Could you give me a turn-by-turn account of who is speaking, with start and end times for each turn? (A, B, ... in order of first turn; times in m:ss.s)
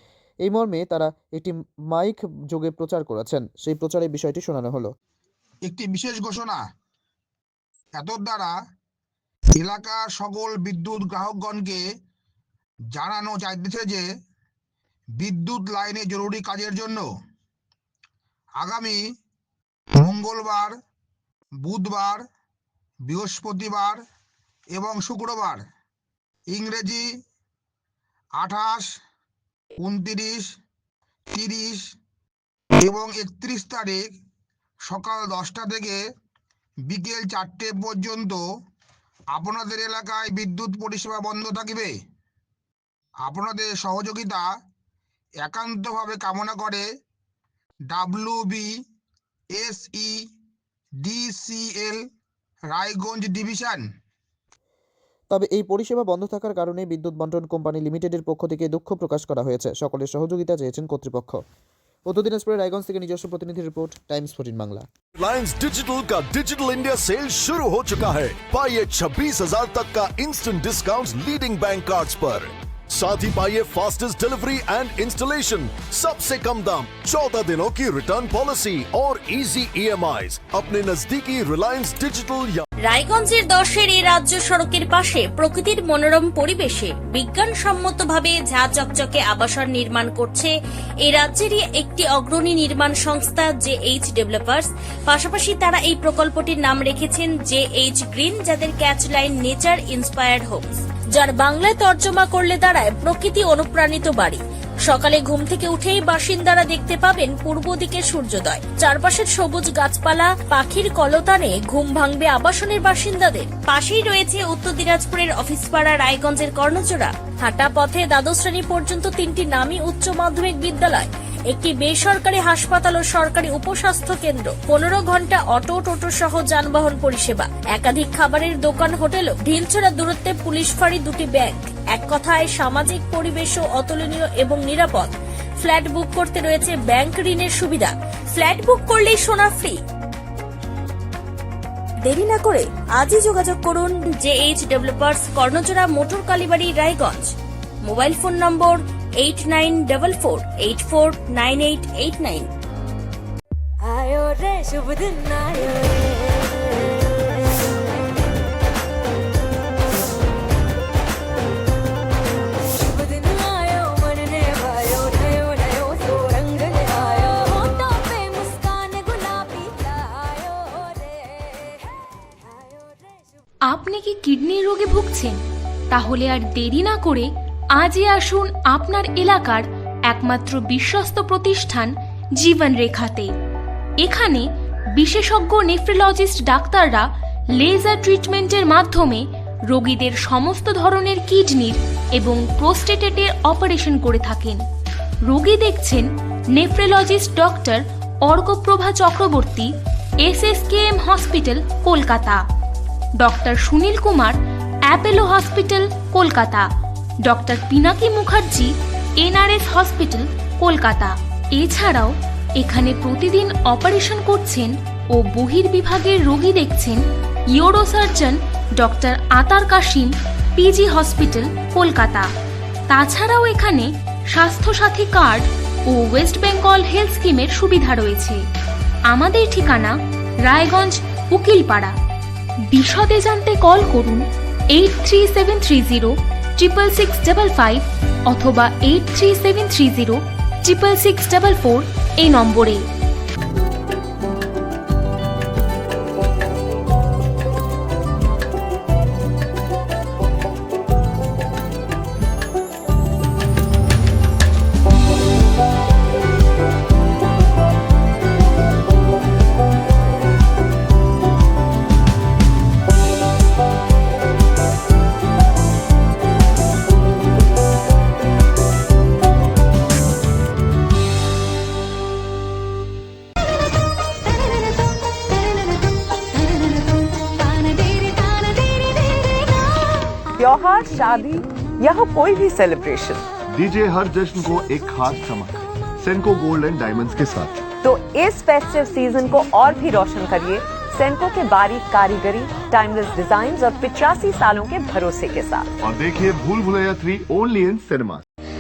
0:00.4-0:04.9 A
0:05.6-0:06.6 B
0:08.0-0:08.5 B
0:09.6-0:11.8 B
0:13.0-0:14.0 B
0:15.2-0:17.0 B
0:18.6-0:19.0 B
0:20.0-0:20.7 B
0:21.6-0:22.2 B
0:23.1-0:24.0 B
0:24.7-0:25.6 B
0:26.5-0:27.0 B
0:28.4-0:28.8 B
0:29.8-0:30.5 B
0:31.3-0:31.8 B
0:32.8-0:34.1 B
0:34.9-0:36.0 B
0:36.9-0:38.4 B
0:39.3-0:41.9 B
0:43.2-0:44.4 B
0:45.4-0:46.8 B
0:47.9-0:48.7 B
0:49.5-0:50.2 B
0:51.0-0:52.0 B
0:52.7-0:53.8 B
0:55.3-1:01.4 A
1:02.1-1:04.8 A
1:05.2-1:22.6 C
1:22.8-1:30.5 D
1:31.0-2:19.8 D
2:22.0-2:27.3 D
2:27.8-2:32.5 D
2:33.8-2:36.6 E
2:42.8-2:51.6 E
2:52.5-2:53.0 E
2:53.6-2:55.4 F
2:55.9-3:03.3 F
3:04.0-3:14.6 F
3:15.2-3:19.7 F
3:20.2-3:22.4 F
3:23.2-3:26.7 F
3:27.2-3:37.0 F
3:37.5-3:42.3 F
3:42.9-3:48.4 F
3:49.1-3:51.9 F
3:52.7-4:02.8 F
4:40.4-4:43.2 G
4:43.5-4:47.6 H
4:47.8-4:55.7 G
4:55.8-4:58.2 H